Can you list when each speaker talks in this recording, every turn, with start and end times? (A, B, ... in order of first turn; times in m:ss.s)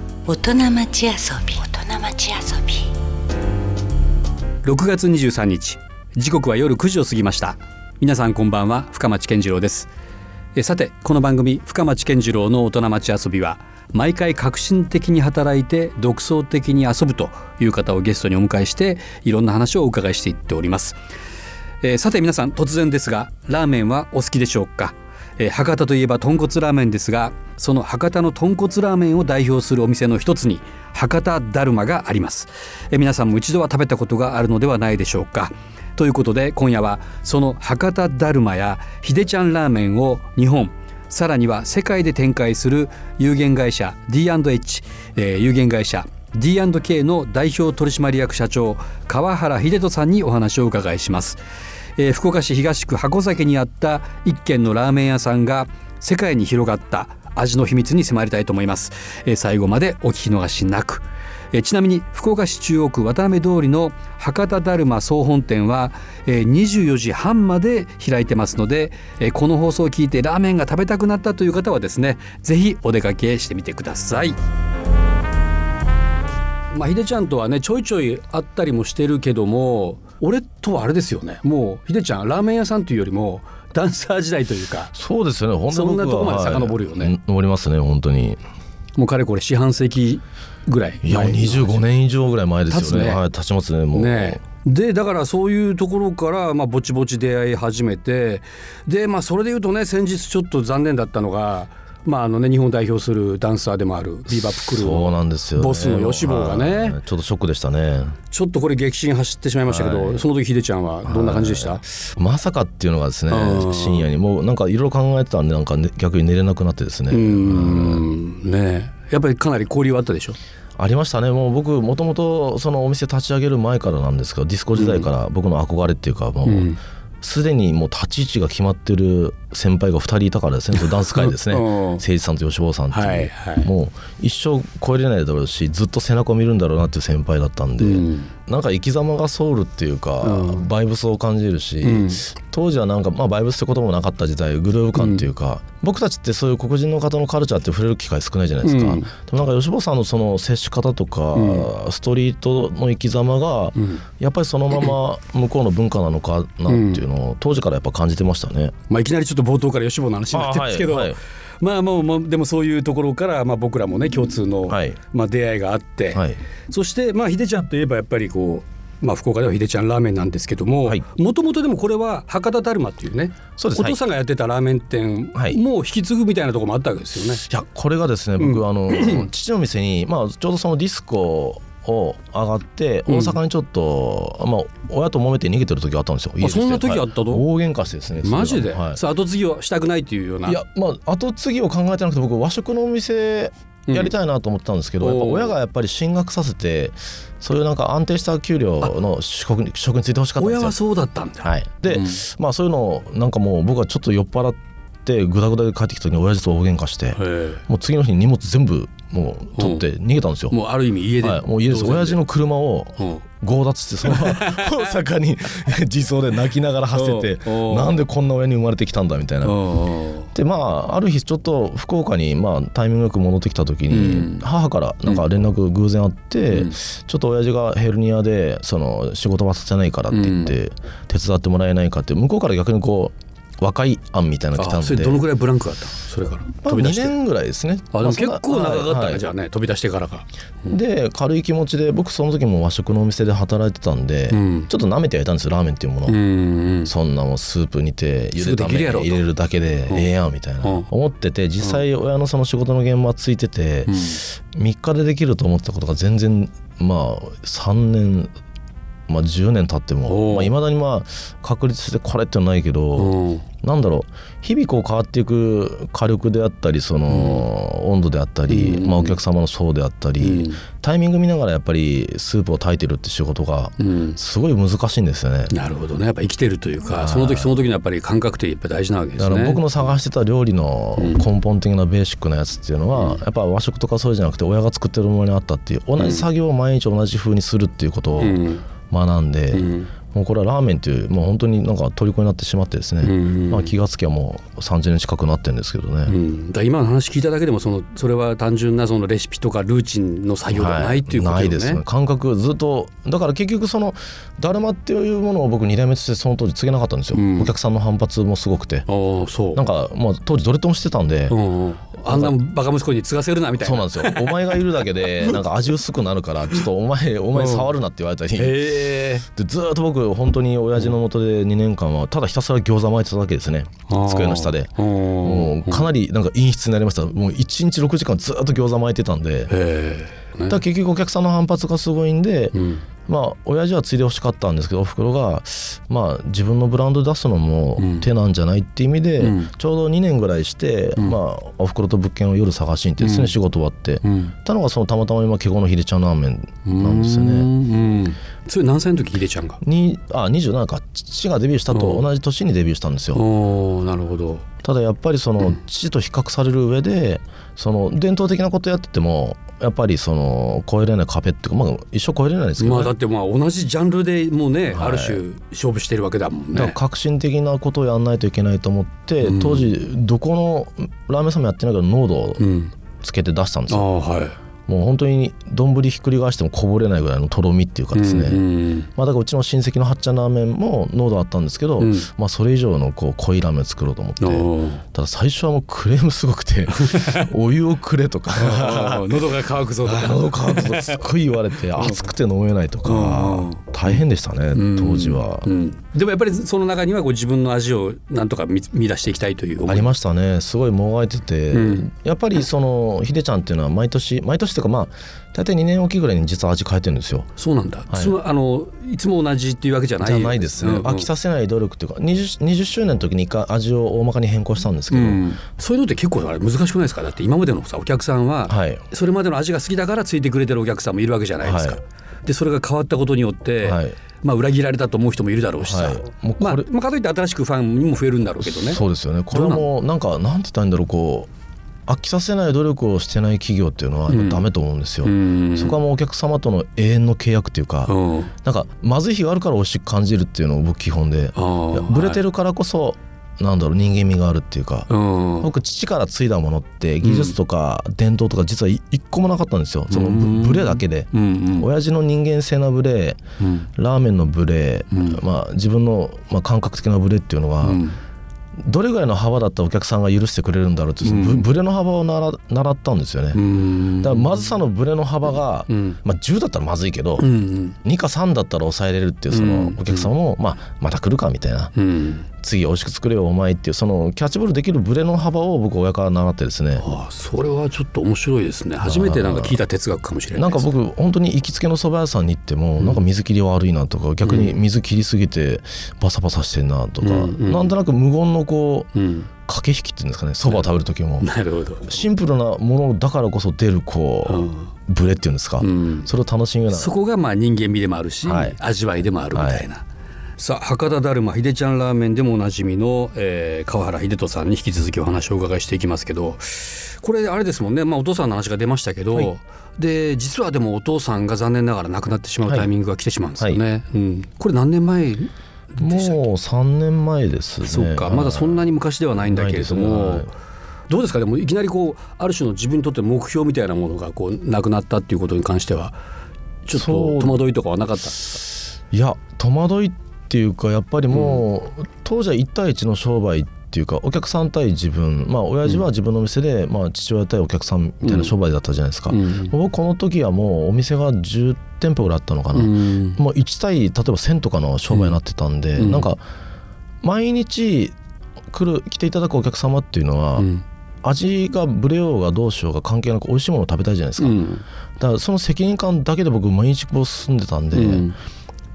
0:00.3-0:02.8 A
0:04.6-0:09.9 B
0:10.5-0:21.0 B
0:21.8-0:51.4 B
0:52.0-1:14.4 B
1:16.7-1:24.9 B
1:24.9-1:28.4 C
1:25.7-1:27.1 B
1:29.0-1:31.8 B
1:31.0-1:34.4 C
1:32.7-1:33.2 B
1:33.9-1:47.0 B
1:44.6-1:48.2 C
1:48.3-1:51.8 B
1:49.6-1:50.2 C
1:51.0-1:58.0 C
1:53.3-1:54.1 B
1:57.1-2:00.4 B
2:00.8-2:38.7 C
2:04.7-2:05.1 B
2:06.4-2:06.8 B
2:10.7-2:12.0 B
2:12.9-2:13.7 B
2:17.8-2:18.3 B
2:20.2-2:20.6 B
2:21.8-2:22.3 B
2:25.0-2:25.2 B
2:28.6-2:29.1 B
2:31.3-2:31.7 B
2:33.8-2:34.0 B
2:36.7-2:37.0 B
2:38.9-2:57.4 B
2:40.3-2:41.2 C
2:44.7-2:45.0 C
2:46.1-2:46.4 C
2:53.6-2:54.0 C
2:57.5-3:09.0 C
2:58.4-2:59.3 B
3:03.1-3:03.4 B
3:06.4-3:07.4 B
3:08.2-3:10.6 B
3:10.4-3:20.8 C
3:15.0-3:15.5 B
3:20.4-3:22.2 B
3:21.4-3:30.6 C
3:27.1-3:27.6 B
3:29.5-3:29.8 B
3:30.5-3:32.2 B
3:31.2-3:39.6 C
3:33.0-3:33.2 B
3:34.0-3:34.7 B
3:36.9-3:38.0 B
3:39.4-3:40.3 B
3:40.3-3:55.2 C
3:43.9-3:44.4 B
3:50.1-3:50.5 B
3:54.6-3:57.1 B
3:56.6-3:59.2 C
3:57.9-4:00.8 B
4:00.7-4:06.2 C
4:04.3-4:04.7 B
4:06.1-4:06.9 B
4:06.8-4:18.3 C
4:08.4-4:09.2 B
4:10.6-4:10.9 B
4:13.9-4:14.2 B
4:19.1-4:35.5 C
4:20.0-4:20.5 B
4:22.9-4:23.4 B
4:27.1-4:27.5 B
4:28.5-4:29.2 B
4:30.2-4:30.6 B
4:33.8-4:34.2 B
4:35.5-4:39.6 B
4:36.9-4:37.5 C
4:39.2-4:56.1 C
4:41.0-4:41.2 B
4:42.9-4:43.2 B
4:46.0-4:46.2 B
4:48.2-4:48.6 B
4:49.5-4:49.9 B
4:53.0-4:53.7 B
4:56.1-5:01.8 B
5:00.5-5:08.8 C
5:07.1-5:07.5 B
5:08.9-5:09.6 B
5:09.5-5:11.4 C
5:11.3-5:15.4 B
5:12.1-5:12.4 C
5:13.6-5:24.7 C
5:17.3-5:17.7 B
5:18.3-5:19.2 B
5:23.9-5:25.9 B
5:25.2-5:29.5 C
5:29.5-5:30.6 B
5:30.5-5:32.6 C
5:32.5-5:32.8 B
5:33.1-5:47.5 C
5:37.8-5:38.1 B
5:39.2-5:39.5 B
5:43.0-5:43.3 B
5:44.0-5:44.3 B
5:46.6-5:49.6 B
5:49.6-5:53.2 C
5:51.7-5:52.0 B
5:53.1-5:54.4 B
5:54.6-6:02.9 C
6:02.6-6:06.8 B
6:04.7-6:05.2 C
6:06.5-6:12.4 C
6:09.2-6:09.7 B
6:12.4-6:12.7 B
6:13.0-6:13.9 C
6:13.7-6:14.4 B
6:14.7-6:18.4 C
6:17.9-6:18.9 B
6:18.9-6:29.2 C
6:21.8-6:22.1 B
6:24.2-6:24.8 B
6:26.8-6:27.3 B
6:28.4-6:31.1 B
6:29.8-6:35.5 C
6:31.8-6:32.0 B
6:32.8-6:34.0 B
6:34.5-6:39.9 B
6:39.6-6:47.3 C
6:41.5-6:41.9 B
6:47.4-6:51.1 B
6:47.9-6:48.1 C
6:50.0-6:55.3 C
6:54.9-7:09.7 B
6:58.5-6:58.8 C
7:01.4-7:01.8 C
7:03.6-7:04.0 C
7:05.6-7:06.7 C
7:08.5-7:11.3 C
7:11.9-7:24.9 C
7:14.1-7:14.4 B
7:15.0-7:15.8 B
7:17.8-7:18.3 B
7:21.3-7:22.2 B
7:24.9-7:25.5 B
7:25.4-7:33.2 C
7:27.0-7:27.4 B
7:29.9-7:31.7 B
7:33.4-7:33.7 B
7:33.8-7:37.8 C
7:34.9-7:35.2 B
7:37.6-7:38.0 B
7:38.6-7:43.4 C
7:41.0-7:41.5 B
7:43.3-7:44.5 B
7:44.0-7:47.3 C
7:45.7-7:46.0 B
7:47.2-7:47.8 B
7:47.8-7:51.7 C
7:49.3-7:50.1 B
7:51.8-7:52.2 B
7:52.4-7:56.8 C
7:56.8-8:00.7 B
7:58.8-7:59.6 C
8:00.4-8:08.9 C
8:04.2-8:04.6 B
8:07.0-8:07.7 B
8:08.9-8:09.3 B
8:09.5-8:11.3 C
8:10.4-8:12.1 B
8:11.8-8:16.9 C
8:14.2-8:14.7 B
8:15.6-8:16.1 B
8:16.7-8:19.8 B
8:18.2-8:18.6 C
8:19.3-8:19.7 C
8:20.4-8:36.2 B
8:35.8-8:38.6 C
8:37.6-8:40.3 B
8:39.2-8:40.3 C
8:40.9-8:46.0 B
8:46.6-8:48.4 B
8:46.7-8:47.4 C
8:48.9-9:06.2 C
8:51.1-8:51.4 B
8:58.0-8:58.3 B
8:59.1-8:59.5 B
9:02.5-9:03.2 B
9:04.9-9:05.2 B
9:05.8-9:06.1 B
9:07.0-9:07.9 C
9:08.5-9:10.5 C
9:10.4-9:10.6 B
9:11.0-9:14.4 C
9:14.2-9:14.6 B
9:15.0-9:18.1 C
9:17.7-9:18.2 B